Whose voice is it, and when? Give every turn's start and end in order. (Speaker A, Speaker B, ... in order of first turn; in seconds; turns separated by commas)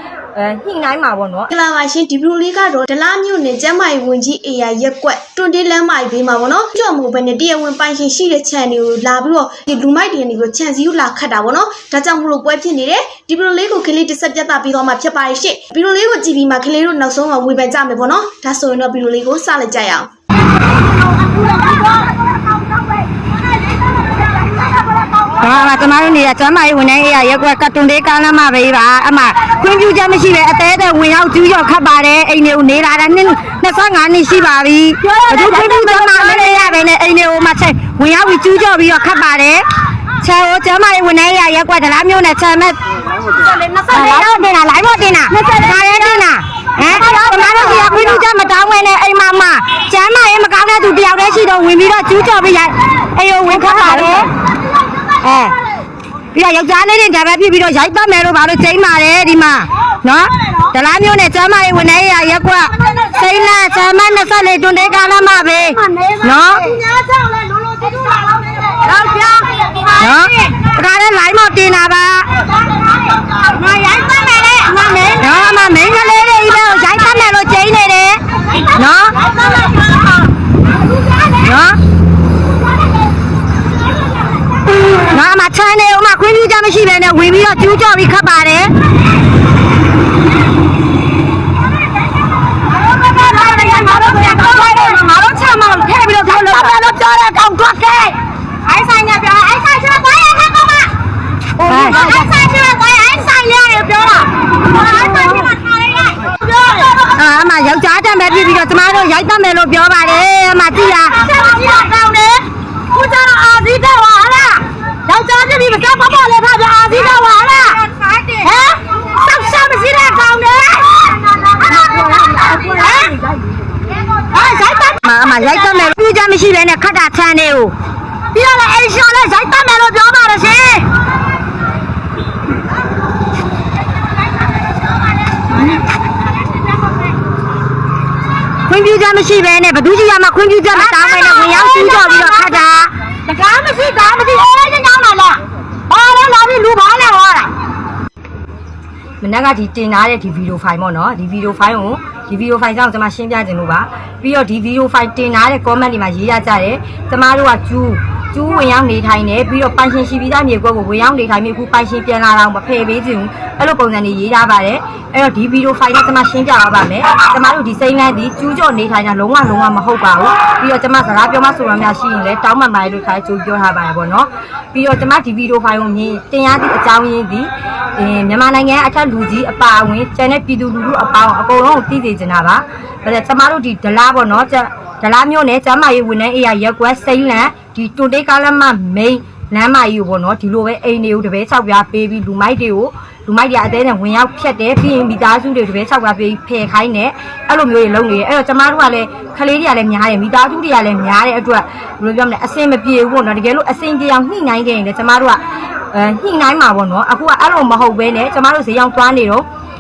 Speaker A: 0.3-1.5, Speaker B: 1.5-20.1, Speaker C: 21.1-22.2, Speaker C: 22.8-23.1, Speaker C: 24.5-25.3, Speaker A: 25.4-39.6, Speaker C: 35.0-36.6, Speaker A: 40.2-42.8, Speaker C: 43.3-44.4, Speaker A: 43.9-54.3, Speaker C: 45.3-46.2, Speaker C: 46.8-48.2, Speaker C: 53.6-54.3, Speaker A: 55.2-55.5, Speaker A: 56.3-66.8, Speaker C: 65.8-70.1, Speaker A: 70.0-72.3, Speaker C: 73.0-75.2, Speaker A: 75.0-78.2, Speaker A: 78.7-79.3, Speaker C: 79.2-80.1, Speaker A: 81.4-81.8, Speaker A: 85.0-88.7, Speaker C: 92.8-96.9, Speaker A: 94.5-98.1, Speaker C: 98.7-100.9, Speaker A: 101.6-102.1, Speaker C: 101.6-107.1, Speaker A: 107.1-111.2, Speaker C: 111.1-123.3, Speaker C: 124.2-125.0, Speaker A: 125.0-127.8, Speaker C: 128.3-130.9, Speaker A: 138.7-142.9, Speaker C: 140.8-142.6, Speaker C: 143.2-147.5, Speaker A: 149.2-205.4, Speaker A: 205.9-209.5